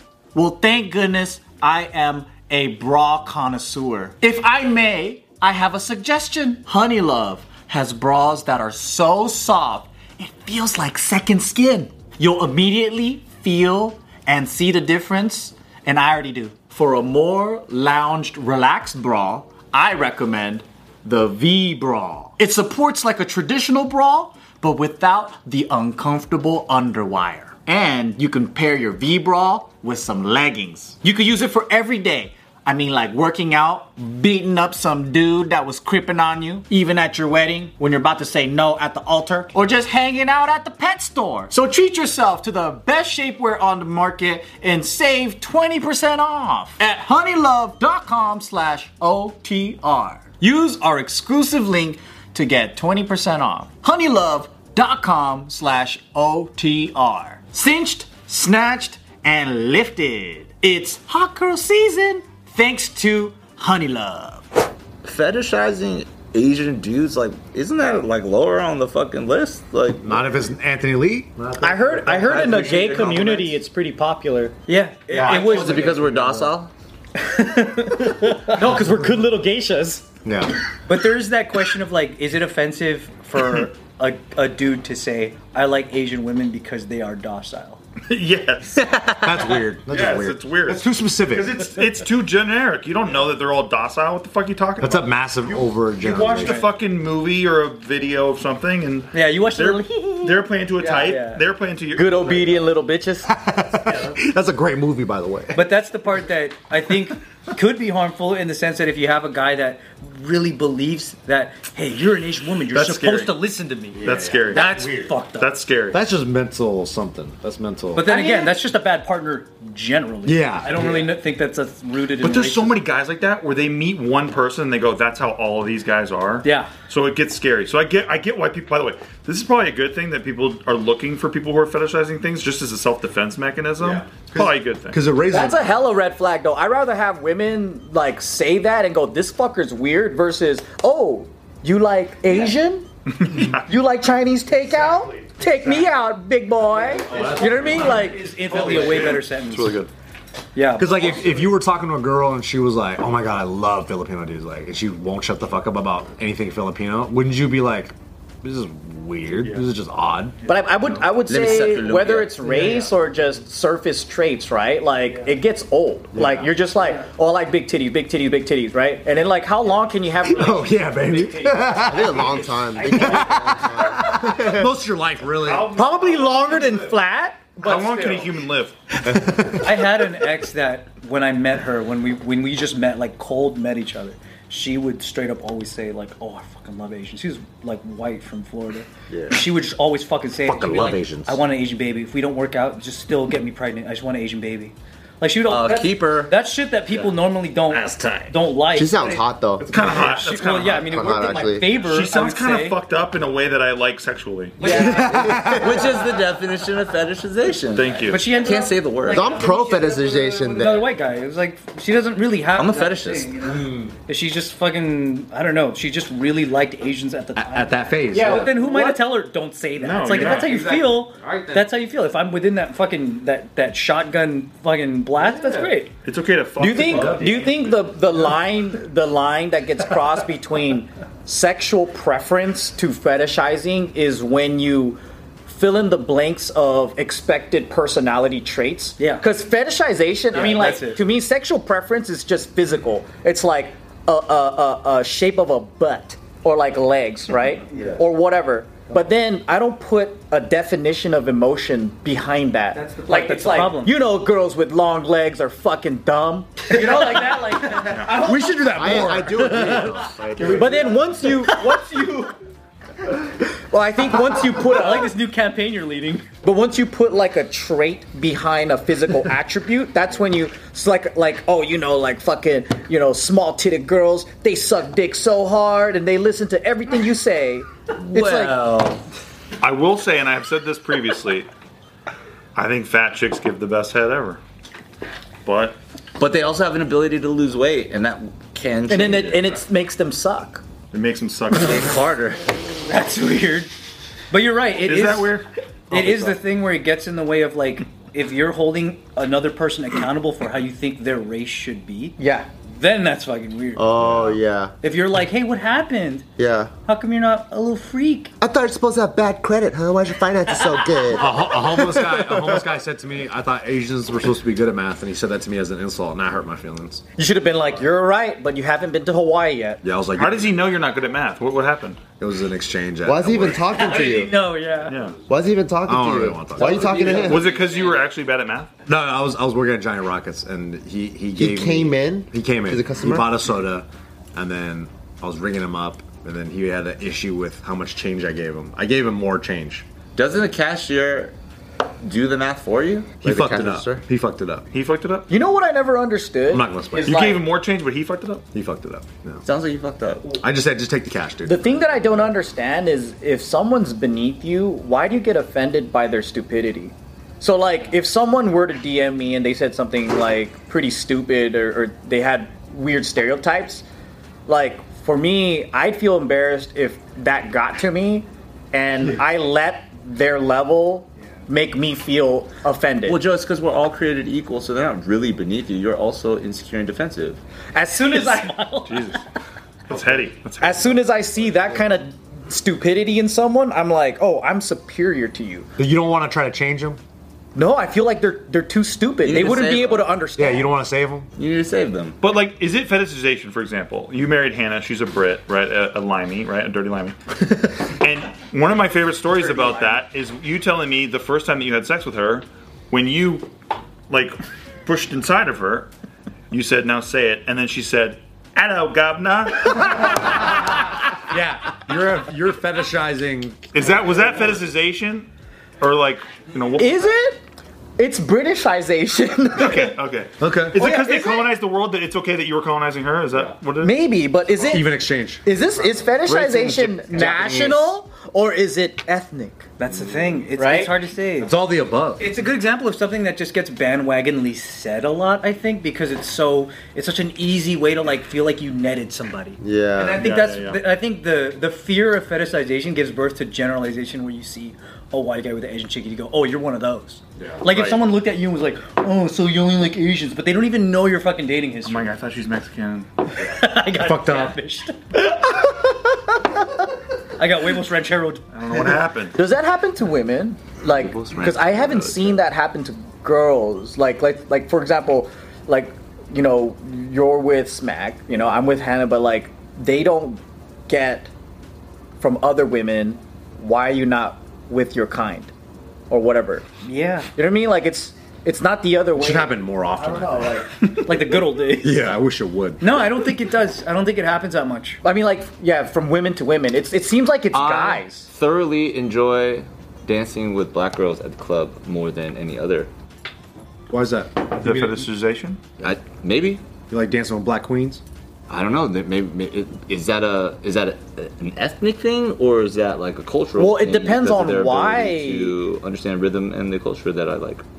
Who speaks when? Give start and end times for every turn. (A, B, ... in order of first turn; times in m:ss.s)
0:00.3-1:04.5 A
1:05.0-1:10.2 B
1:10.0-1:13.3 C
1:11.6-1:14.6 A
1:12.4-1:13.5 D
1:14.7-1:16.0 D
1:15.1-1:16.5 C
1:15.1-1:16.7 B
1:17.2-1:20.0 A
1:20.2-1:20.6 C
1:20.9-1:27.8 D
1:28.0-1:28.9 E
1:28.8-1:29.6 A
1:29.2-1:31.7 C
1:29.9-1:42.6 E
1:34.8-1:36.6 C
1:39.1-1:41.4 D
1:40.8-1:41.1 A
1:42.0-1:43.3 A
1:43.3-1:45.7 C
1:45.5-1:55.6 D
1:52.7-1:53.4 E
1:54.0-1:55.2 C
1:54.0-1:54.8 E
1:55.3-1:56.0 E
1:55.9-1:58.1 C
1:57.9-2:02.8 D
1:58.0-1:58.5 A
2:00.2-2:01.0 C
2:02.2-2:15.0 E
2:06.4-2:06.8 D
2:13.8-2:15.8 C
2:15.3-2:28.3 A
2:23.2-2:23.6 E
2:24.9-2:25.2 E
2:27.1-2:29.8 D
2:27.1-2:29.1 C
2:27.1-2:27.9 E
2:28.5-2:29.9 E
2:30.5-2:31.5 D
2:30.8-2:40.4 C
2:39.4-2:39.6 E
2:40.4-2:50.8 A
2:41.2-2:42.4 B
2:42.5-2:42.9 D
2:46.1-2:46.5 F
2:50.2-2:55.8 C
2:50.6-2:53.7 D
2:51.8-2:54.7 F
2:55.4-2:56.8 E
2:55.7-2:58.3 A
2:57.6-2:58.8 E
2:57.9-2:58.2 D
2:59.0-2:59.9 C
2:59.5-3:19.2 D
3:10.5-3:11.4 C
3:15.5-3:16.4 B
3:18.7-3:19.7 F
3:19.6-3:21.2 E
3:19.8-3:20.1 C
3:19.8-3:22.8 D
3:20.7-3:21.8 F
3:21.8-3:24.8 E
3:24.6-3:25.4 D
3:24.6-3:26.2 C
3:24.7-3:26.0 F
3:25.2-3:29.4 B
3:27.7-3:28.4 E
3:28.0-3:46.0 D
3:29.1-3:30.9 F
3:32.5-3:33.5 B
3:33.4-3:34.0 C
3:37.4-3:38.7 C
3:38.1-3:39.0 A
3:39.8-3:40.6 E
3:40.1-3:41.7 C
3:45.2-3:45.7 C
3:46.0-3:47.5 E
3:46.6-4:17.8 A
3:46.8-3:47.5 C
3:59.0-3:59.2 D
4:00.3-4:01.0 D
4:07.7-4:08.0 D
4:12.7-4:14.0 D
4:16.7-4:19.8 D
4:17.8-4:18.2 E
4:18.0-4:20.6 C
4:18.7-4:20.7 F
4:20.4-4:20.7 E
4:20.4-4:22.4 D
4:20.5-4:21.8 A
4:23.7-4:25.1 A
4:24.6-4:26.3 D
4:26.4-4:38.8 A
4:38.0-4:39.0 B
4:39.6-4:41.5 E
4:42.5-4:44.4 E
4:45.4-4:45.8 E
4:46.2-4:49.6 B
4:48.9-4:50.6 A
4:50.9-4:52.1 E
4:51.6-4:52.5 B
4:52.9-4:53.7 D
4:54.3-5:03.9 D
4:54.8-4:56.2 E
5:02.2-5:02.5 A
5:03.8-5:04.7 F
5:04.8-5:06.3 D
5:06.4-5:06.7 F
5:06.8-5:08.3 D
5:08.4-5:12.6 F
5:11.1-5:17.0 C
5:17.2-5:19.8 A
5:19.8-5:20.6 C
5:20.2-5:22.0 E
5:22.2-5:23.6 C
5:23.0-5:24.4 F
5:23.7-5:25.0 D
5:24.9-5:25.2 E
5:25.3-5:27.5 F
5:25.9-5:27.2 C
5:26.7-5:28.0 B
5:26.9-5:27.2 D
5:27.1-5:28.7 E
5:28.9-5:39.8 C
5:31.4-5:33.3 F
5:40.2-5:41.3 B
5:42.0-5:43.2 B
5:43.2-5:44.7 C
5:43.2-5:44.0 F
5:44.7-5:45.3 E
5:45.3-5:47.5 A
5:46.5-5:47.3 C
5:47.0-5:48.5 E
5:48.5-5:49.4 C
5:49.4-5:50.4 B
5:50.4-5:51.8 C
5:51.4-6:03.8 A
6:04.5-6:13.2 A
6:13.0-6:17.4 B
6:17.8-6:18.5 A
6:17.8-6:19.2 D
6:18.9-6:19.2 E
6:19.9-6:21.0 E
6:20.6-6:25.7 A
6:25.8-6:27.0 C
6:27.5-6:30.7 A
6:29.2-6:30.1 B
6:30.4-6:31.3 C
6:31.4-6:32.2 B
6:32.2-6:37.2 E
6:37.7-6:43.5 E
6:44.1-6:45.9 E
6:46.5-6:50.4 E
6:51.2-6:54.4 C
6:53.7-6:55.3 E
6:55.8-6:57.0 E
6:56.8-6:57.4 A
6:58.0-7:00.0 A
6:59.6-7:04.0 E
7:00.4-7:00.8 C
7:00.8-7:01.5 A
7:03.8-7:09.7 A
7:04.7-7:05.4 C
7:06.2-7:08.0 B
7:09.8-7:11.5 D
7:10.6-7:10.9 A
7:11.4-7:12.3 C
7:12.2-7:32.2 D
7:19.6-7:20.2 F
7:20.1-7:20.8 E
7:27.7-7:28.0 E
7:31.8-7:33.1 E
7:33.3-7:35.9 D
7:33.9-7:34.6 C
7:37.4-7:38.6 D
7:38.5-7:39.4 E
7:39.3-7:51.3 A
7:40.8-7:42.4 B
7:52.2-7:55.5 A
7:56.1-7:56.7 A
7:56.8-7:57.3 D
7:57.3-8:00.7 A
7:59.2-8:00.6 C
8:00.9-8:02.0 D
8:01.7-8:02.9 C
8:02.8-8:05.0 D
8:05.0-8:08.3 A
8:07.5-8:12.9 B
8:13.9-8:15.0 C
8:14.5-8:15.6 E
8:15.8-8:16.6 B
8:16.9-8:18.0 C
8:18.5-8:27.6 B
8:23.6-8:25.6 A